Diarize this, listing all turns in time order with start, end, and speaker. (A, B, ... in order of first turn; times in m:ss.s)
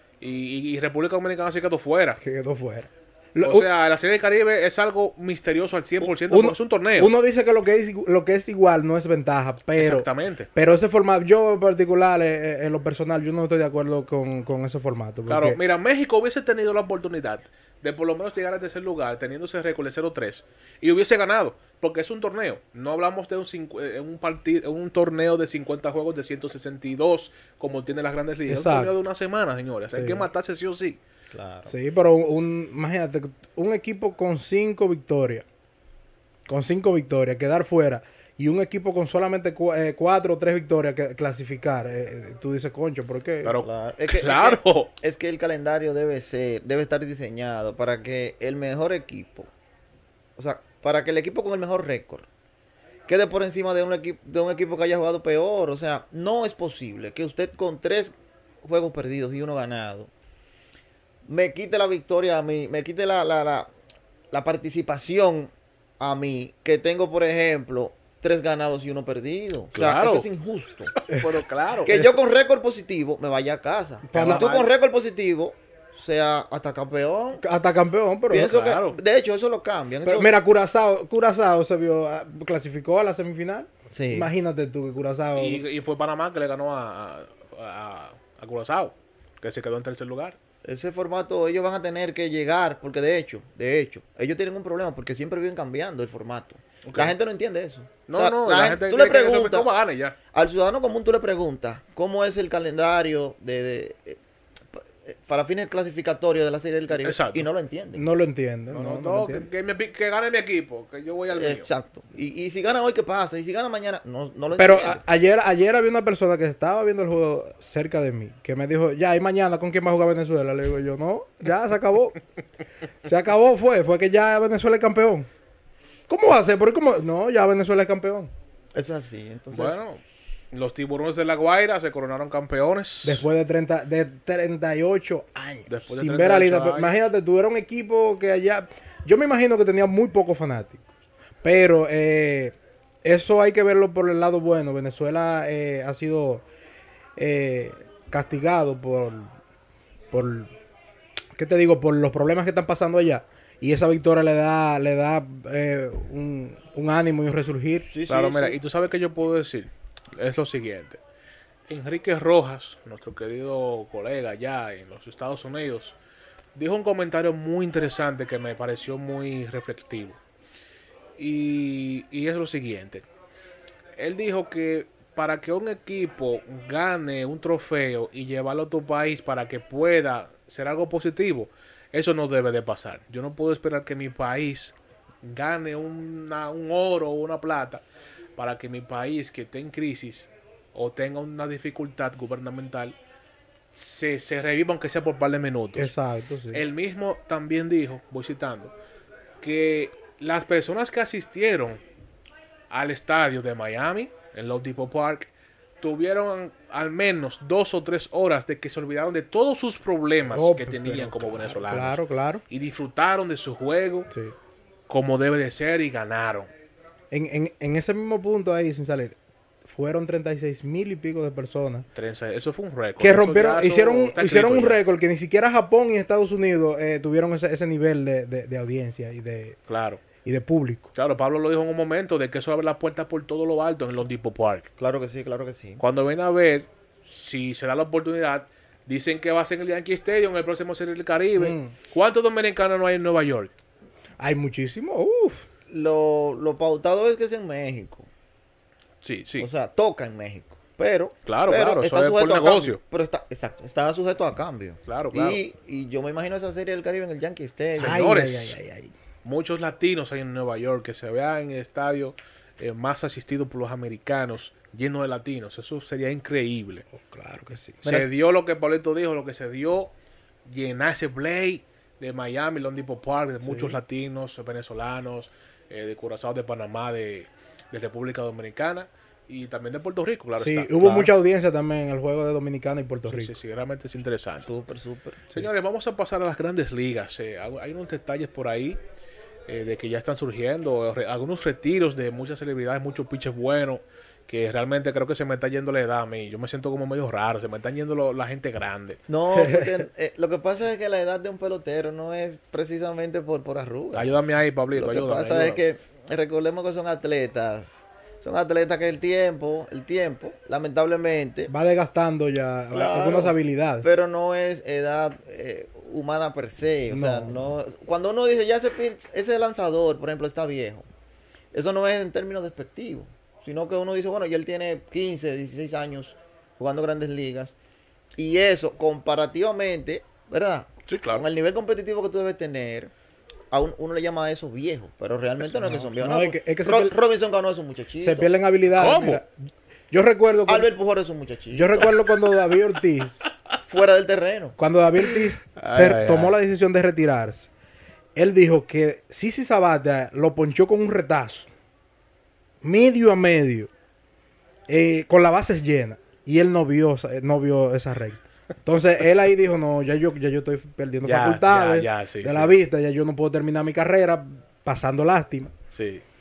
0:00.2-0:02.2 A
0:02.2-0:03.7 B
0:03.4-0:07.1 A
0:06.0-0:15.6 B
0:09.8-0:10.5 A
0:15.3-0:31.0 A
0:28.5-0:28.9 B
0:29.9-0:30.3 B
0:31.3-0:31.7 C
0:31.7-0:35.4 B
0:36.5-0:43.5 B
0:43.4-0:44.9 A
0:43.6-0:49.5 C
0:50.4-0:52.3 C
0:53.1-1:00.1 C
1:01.2-1:03.7 C
1:04.3-1:11.0 C
1:09.8-1:10.3 A
1:10.9-1:11.9 A
1:11.8-1:17.4 C
1:11.9-1:12.2 B
1:14.1-1:14.5 B
1:14.1-1:14.7 A
1:17.4-1:18.5 B
1:18.3-1:20.3 C
1:18.4-1:19.0 A
1:20.0-1:25.6 B
1:23.9-1:24.3 C
1:25.4-1:30.4 A
1:30.6-1:39.7 C
1:36.8-1:37.1 A
1:38.1-1:40.2 A
1:40.3-1:44.2 C
1:44.7-1:48.0 C
1:47.0-1:47.5 A
1:48.0-1:49.5 B
1:48.7-1:51.7 A
1:51.3-1:55.0 C
1:54.6-2:02.2 B
2:03.0-2:05.3 B
2:06.1-2:08.3 B
2:08.8-2:09.8 C
2:09.5-2:10.0 A
2:10.5-2:13.2 A
2:13.0-2:20.8 B
2:15.7-2:16.9 A
2:21.4-2:26.4 B
2:27.2-2:29.3 B
2:30.1-2:30.5 B
2:31.4-2:37.9 B
2:37.9-2:38.6 C
2:38.1-2:41.0 A
2:41.7-2:46.0 A
2:46.6-2:50.2 A
2:51.2-2:53.0 A
2:54.0-3:07.8 A
3:08.4-3:13.0 A
3:13.7-3:15.9 A
3:15.8-3:16.6 B
3:16.5-3:18.7 A
3:19.4-3:21.8 A
3:22.7-3:25.3 A
3:25.8-3:34.1 A
3:30.3-3:32.4 B
3:34.1-3:34.4 B
3:34.9-3:36.5 A
3:37.1-3:41.9 B
3:42.0-3:44.8 A
3:43.0-3:49.6 B
3:49.7-3:50.0 A
3:50.2-3:50.9 B
3:50.9-3:54.7 A
3:54.8-3:55.8 C
3:55.8-4:03.5 A
4:01.4-4:01.8 B
4:04.2-4:05.5 B
4:05.7-4:08.1 C
4:09.0-4:09.5 A
4:09.4-4:18.1 C
4:11.3-4:12.8 A
4:14.9-4:15.4 A
4:17.8-4:18.6 A
4:17.8-4:18.9 B
4:19.2-4:26.8 A
4:26.9-4:28.1 B
4:27.8-4:29.9 A
4:30.5-4:40.7 A
4:33.4-4:33.8 B
4:40.4-4:43.3 B
4:40.8-4:41.1 C
4:43.1-4:44.5 A
4:44.4-4:45.3 C
4:45.3-4:48.8 A
4:49.5-4:59.0 A
4:59.1-5:04.2 C
4:59.4-4:59.8 B
5:03.9-5:05.6 A
5:04.8-5:11.5 C
5:11.5-5:13.9 B
5:12.7-5:20.9 C
5:16.9-5:17.5 B
5:21.5-5:27.5 C
5:28.2-5:32.9 C
5:30.9-5:31.2 A
5:33.5-5:38.3 C
5:35.6-5:37.0 B
5:38.0-5:39.3 B
5:38.8-5:39.2 A
5:39.9-5:40.7 B
5:40.5-5:42.0 C
5:41.5-5:43.2 B
5:43.6-5:44.6 C
5:44.6-5:47.5 B
5:45.6-5:46.4 A
5:48.2-5:51.5 B
5:52.6-5:53.7 B
5:54.7-6:05.5 B
6:01.0-6:02.5 A
6:05.7-6:06.0 A